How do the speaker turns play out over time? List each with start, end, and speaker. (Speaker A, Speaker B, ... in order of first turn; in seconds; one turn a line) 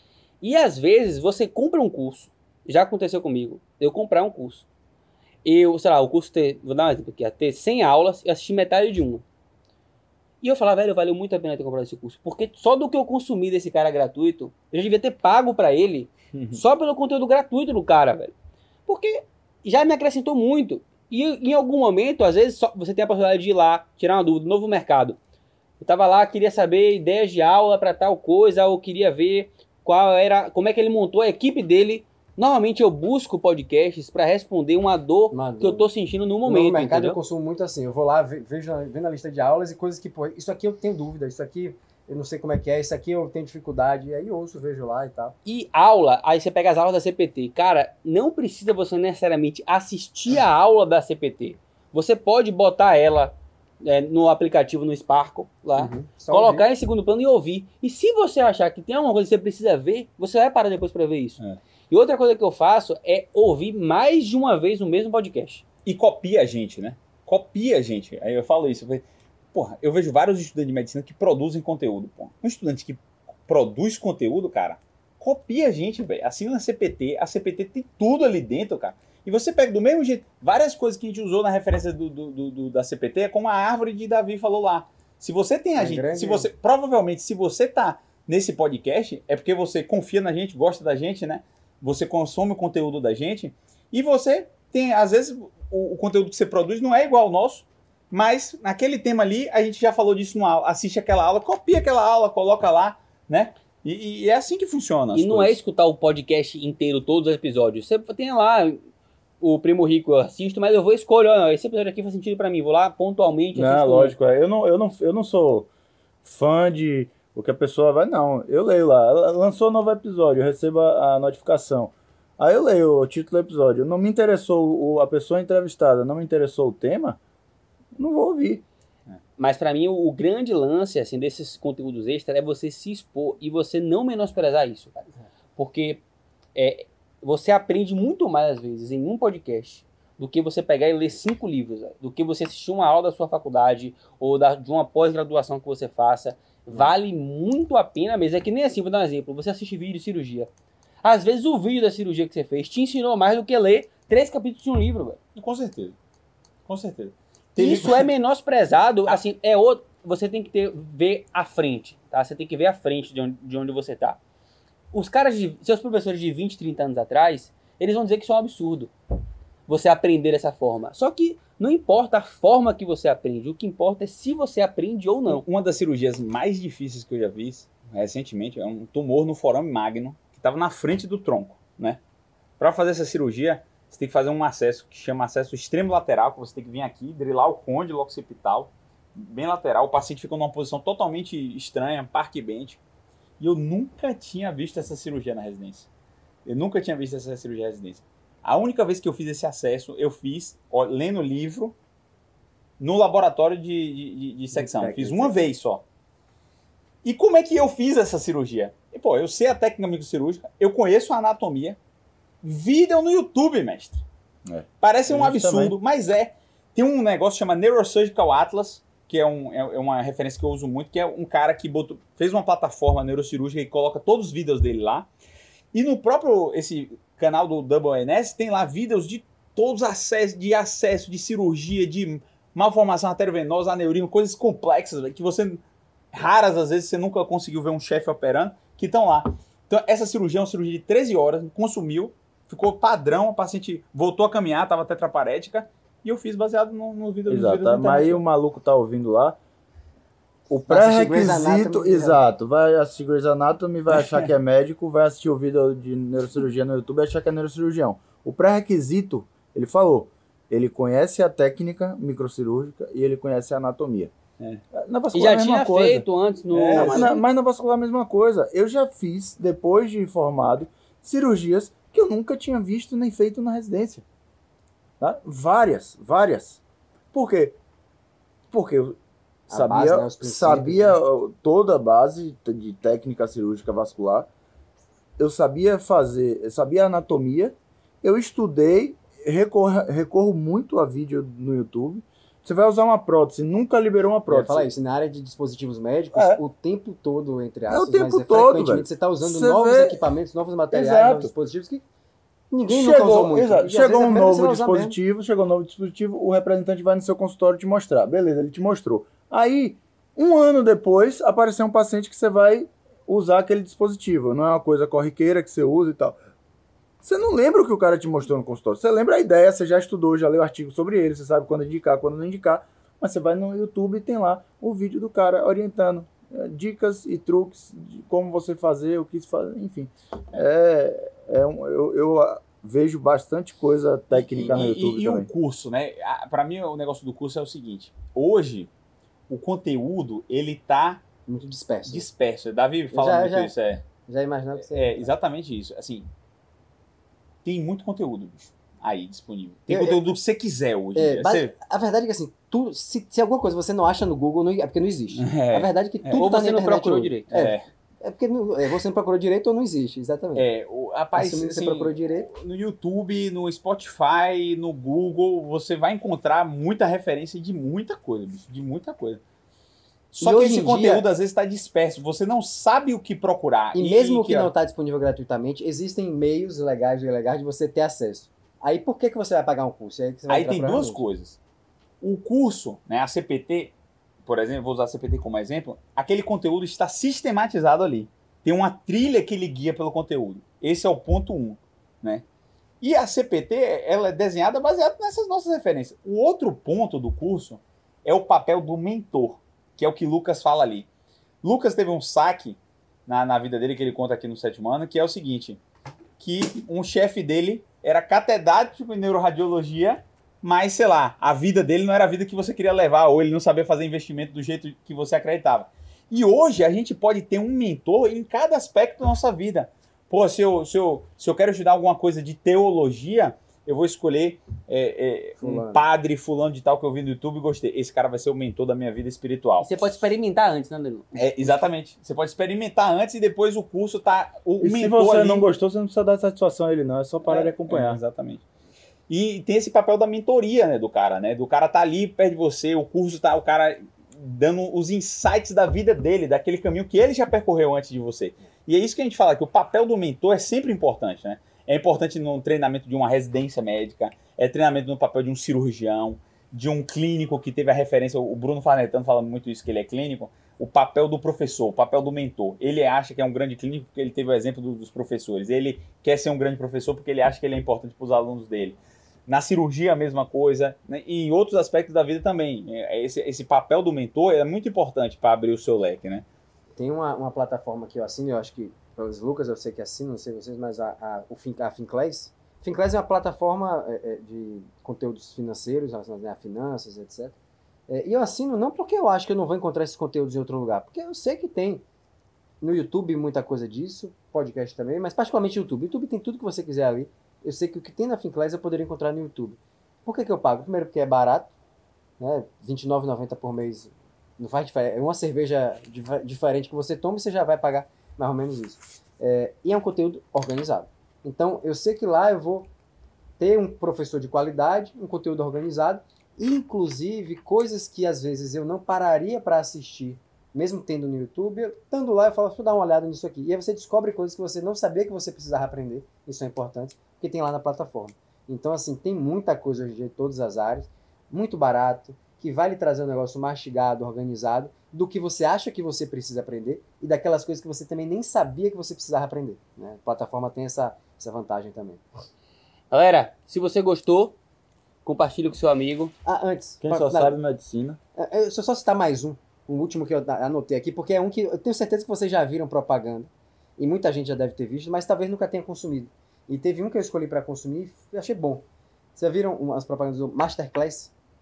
Speaker A: 0.4-4.7
Speaker A: 5.5-9.2
Speaker A: 10.4-18.3
Speaker B: 16.3-16.6
Speaker A: 18.9-25.2
Speaker A: 25.8-37.2
Speaker C: 35.3-35.9
Speaker C: 36.5-45.4
Speaker A: 45.5-65.7
Speaker C: 55.8-56.7
Speaker B: 65.9-105.6
Speaker C: 85.8-86.5
Speaker A: 105.1-108.8
Speaker A: 109.4-114.2
Speaker D: 113.5-115.7
Speaker D: 116.2-127.2
Speaker D: 128.0-128.6
Speaker A: 129.4-136.0
Speaker A: 136.6-150.5
Speaker A: 151.0-155.2
Speaker B: 155.4-156.0
Speaker B: 156.7-158.1
Speaker A: 157.6-164.2
Speaker A: 164.9-168.9
Speaker A: 169.7-175.4
Speaker B: 175.3-182.0
Speaker B: 182.6-192.8
Speaker B: 193.4-195.9
Speaker B: 196.4-201.8
Speaker B: 202.8-205.8
Speaker C: 204.5-205.5
Speaker B: 207.0-211.8
Speaker B: 212.4-214.0
Speaker D: 214.5-215.8
Speaker B: 214.8-225.1
Speaker B: 225.7-235.6
Speaker B: 236.1-248.2
Speaker D: 247.3-249.4
Speaker D: 250.5-264.1
Speaker C: 250.7-252.2
Speaker B: 253.9-254.3
Speaker D: 264.7-266.1
Speaker A: 265.1-267.2
Speaker B: 266.5-267.1
Speaker D: 266.7-274.1
Speaker D: 275.0-276.6
Speaker D: 277.1-277.6
Speaker D: 278.5-279.0
Speaker C: 279.5-281.0
Speaker D: 279.5-284.3
Speaker D: 285.2-294.7
Speaker C: 294.3-301.8
Speaker D: 296.1-296.4
Speaker D: 297.7-300.1
Speaker D: 300.7-301.3
Speaker C: 302.5-305.0
Speaker D: 302.7-316.2
Speaker D: 317.0-335.3
Speaker B: 334.1-338.7
Speaker B: 339.3-341.0
Speaker C: 341.3-342.1
Speaker B: 341.9-343.9
Speaker C: 342.9-343.5
Speaker C: 344.1-345.1
Speaker B: 344.6-346.1
Speaker B: 347.4-351.5
Speaker C: 349.7-350.0
Speaker C: 350.9-360.5
Speaker B: 355.1-356.3
Speaker A: 356.1-357.3
Speaker B: 357.3-357.7
Speaker B: 360.4-369.2
Speaker C: 361.1-362.3
Speaker B: 370.1-374.5
Speaker C: 370.2-371.1
Speaker C: 373.7-381.0
Speaker B: 380.3-381.4
Speaker B: 382.0-392.2
Speaker B: 392.8-400.9
Speaker B: 401.4-405.6
Speaker B: 406.2-429.8
Speaker C: 425.4-425.9
Speaker A: 429.6-431.6
Speaker B: 431.1-435.5
Speaker D: 434.6-438.0
Speaker B: 437.2-438.4
Speaker B: 439.1-476.2
Speaker C: 476.8-487.4
Speaker C: 487.9-491.8
Speaker C: 492.6-501.5
Speaker C: 502.2-512.7
Speaker C: 513.4-542.0
Speaker A: 542.9-544.4
Speaker A: 545.0-546.1
Speaker C: 546.2-547.4
Speaker D: 546.8-548.0
Speaker C: 548.2-558.6
Speaker C: 559.2-561.1